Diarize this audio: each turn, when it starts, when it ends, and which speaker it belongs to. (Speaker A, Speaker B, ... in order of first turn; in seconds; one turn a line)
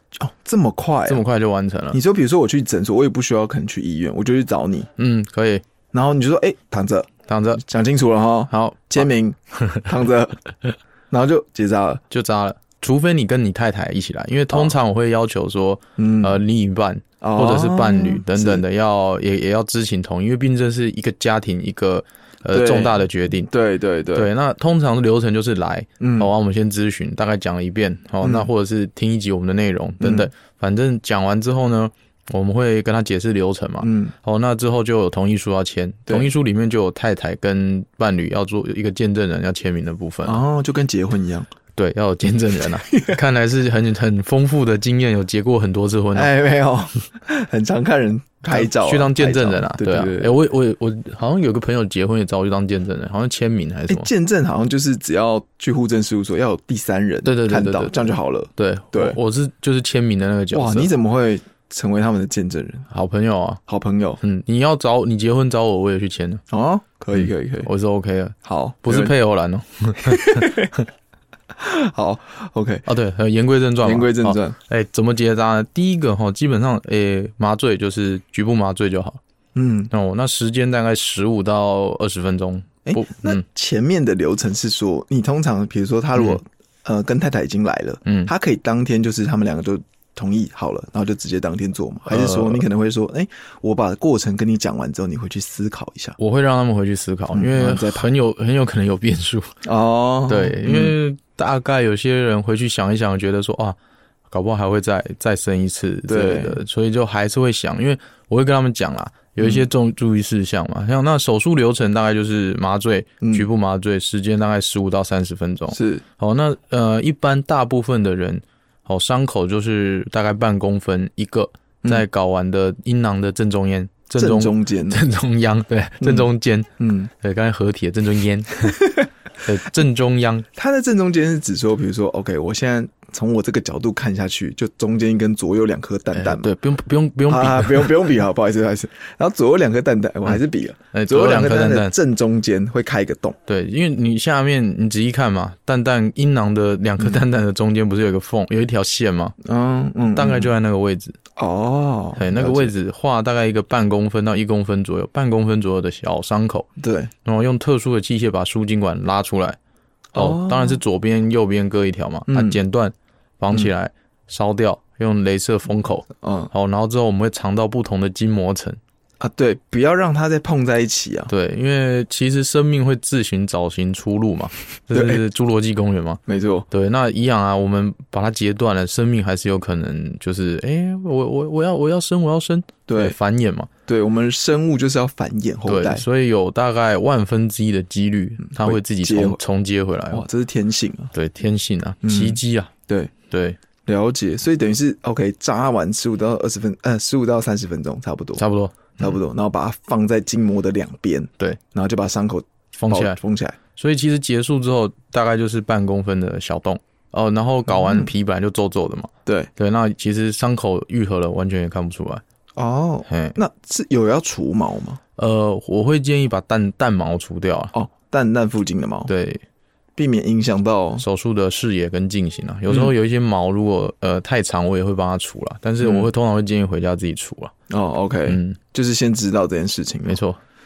Speaker A: 0.2-1.2
Speaker B: 1.1-2.0
Speaker A: 1.9-4.9
Speaker B: 5.0-5.6
Speaker A: 5.9-10.4
Speaker B: 7.3-7.6
Speaker B: 8.5-9.1
Speaker A: 11.1-12.0
Speaker B: 12.1-23.5
Speaker A: 14.5-14.8
Speaker A: 16.0-16.4
Speaker A: 17.2-18.6
Speaker A: 22.5-24.3
Speaker B: 24.1-40.4
Speaker A: 26.0-26.3
Speaker A: 28.2-28.5
Speaker A: 30.0-30.3
Speaker A: 33.8-34.1
Speaker A: 36.1-36.3
Speaker A: 40.2-41.5
Speaker B: 41.8-46.3
Speaker A: 42.9-43.2
Speaker A: 46.1-50.4
Speaker B: 48.5-54.1
Speaker A: 53.9-59.2
Speaker B: 57.2-60.9
Speaker A: 60.5-62.9
Speaker B: 62.9-63.6
Speaker A: 63.7-64.2
Speaker B: 64.2-66.4
Speaker A: 66.5-67.7
Speaker B: 67.1-70.8
Speaker A: 68.4-69.2
Speaker A: 70.0-70.7
Speaker A: 71.6-72.8
Speaker B: 72.8-79.2
Speaker A: 73.8-74.6
Speaker A: 79.5-79.9
Speaker B: 79.9-83.4
Speaker A: 82.9-96.2
Speaker B: 88.0-88.3
Speaker B: 92.1-92.6
Speaker B: 96.2-99.6
Speaker A: 97.3-98.1
Speaker A: 99.6-101.0
Speaker B: 100.3-103.8
Speaker B: 104.3-130.5
Speaker A: 106.1-106.6
Speaker A: 109.4-109.7
Speaker A: 113.2-113.5
Speaker A: 115.7-116.0
Speaker A: 124.2-125.0
Speaker A: 126.0-127.1
Speaker A: 128.8-129.1
Speaker A: 130.6-136.6
Speaker B: 136.1-138.0
Speaker A: 137.3-143.4
Speaker B: 140.9-141.9
Speaker B: 143.5-149.4
Speaker A: 149.4-150.5
Speaker B: 150.1-151.2
Speaker A: 151.4-152.7
Speaker B: 152.2-156.7
Speaker A: 156.8-157.1
Speaker B: 157.2-159.6
Speaker A: 160.1-160.8
Speaker B: 160.2-168.8
Speaker A: 162.3-162.6
Speaker A: 166.2-166.5
Speaker A: 169.2-171.3
Speaker B: 171.3-183.7
Speaker A: 174.9-175.2
Speaker A: 176.3-176.7
Speaker A: 182.9-183.2
Speaker A: 183.9-186.0
Speaker B: 185.7-190.2
Speaker A: 188.5-189.4
Speaker A: 190.1-191.1
Speaker B: 191.1-192.7
Speaker A: 192.0-193.1
Speaker B: 193.3-193.6
Speaker A: 193.9-198.4
Speaker B: 198.4-199.2
Speaker A: 199.0-203.6
Speaker B: 202.8-203.2
Speaker B: 203.8-212.2
Speaker A: 207.7-208.1
Speaker A: 212.6-215.0
Speaker B: 213.1-213.4
Speaker B: 215.2-217.7
Speaker A: 217.7-219.1
Speaker B: 219.1-219.4
Speaker A: 220.0-221.0
Speaker B: 221.0-227.5
Speaker A: 225.8-226.1
Speaker A: 227.7-230.2
Speaker B: 228.3-228.6
Speaker B: 230.1-230.4